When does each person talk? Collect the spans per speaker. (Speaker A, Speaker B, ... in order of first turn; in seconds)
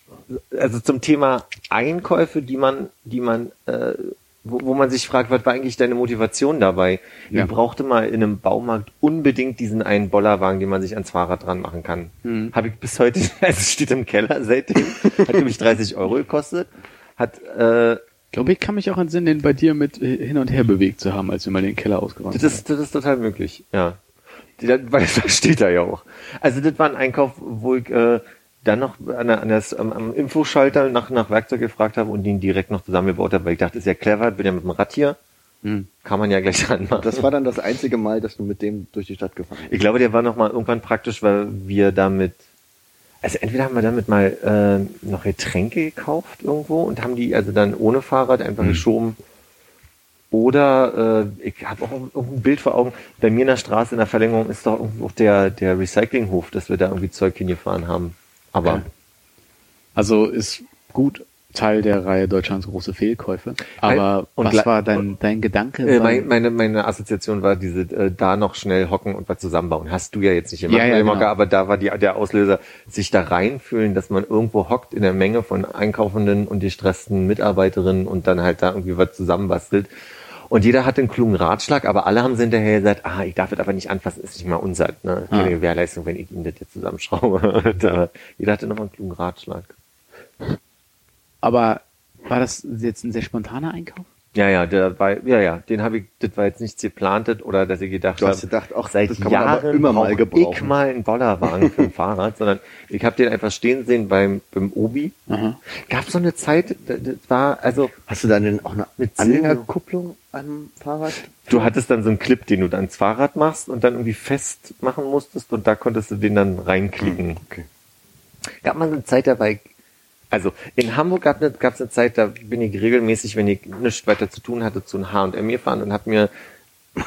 Speaker A: 0.3-16.7, 17.2-18.0, 22.3-24.0, 24.6-35.2, 36.0-37.3, 39.7-42.4, 43.2-49.1, 50.3-58.8, 63.8-64.7, 65.8-79.9, 80.5-89.7, 94.3-105.1, 105.7-107.9, 109.0-109.7, 111.5-117.4, 118.6-119.7, 120.3-126.3
Speaker B: 12.2-12.5, 18.3-22.6, 35.6-35.9, 59.9-66.3, 70.7-71.3, 91.4-94.1, 105.3-105.6
Speaker C: 37.0-39.8, 98.2-100.7, 101.6-101.9, 108.1-111.7, 117.0-117.7